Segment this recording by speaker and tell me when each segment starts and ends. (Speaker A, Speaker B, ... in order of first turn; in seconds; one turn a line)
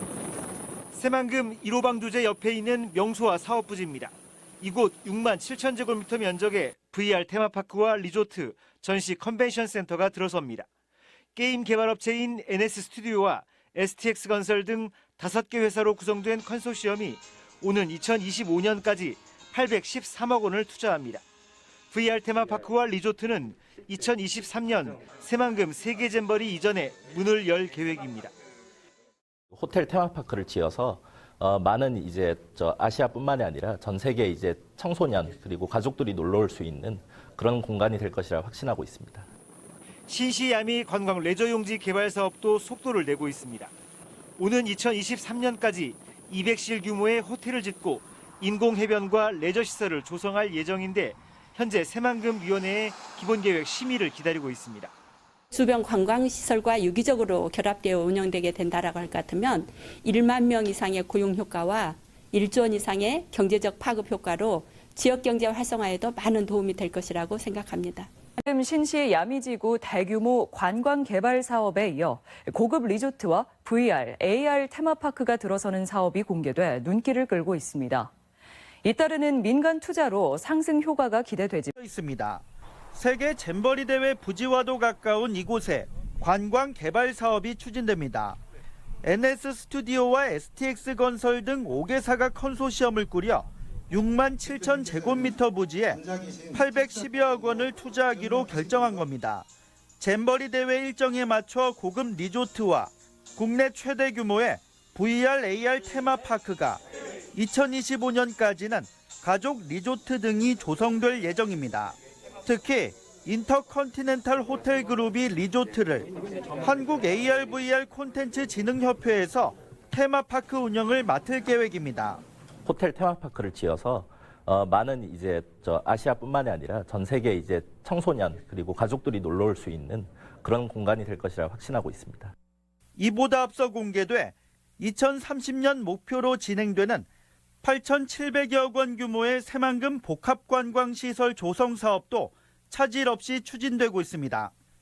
Speaker A: 0.9-10.7
Speaker A: 11.3-21.2
Speaker A: 21.9-28.3
Speaker B: 29.5-39.3
Speaker A: 40.1-43.7
Speaker A: 44.4-54.9
Speaker C: 55.5-68.1
Speaker D: 68.4-78.1
Speaker D: 78.8-81.7
Speaker E: 81.8-82.4
Speaker E: 82.9-88.4
Speaker E: 89.0-99.5
Speaker E: 100.0-106.8
Speaker E: 107.3-116.1
Speaker E: 116.6-122.2
Speaker B: 122.6-132.3
Speaker E: 133.0-137.1
Speaker E: 137.6-144.5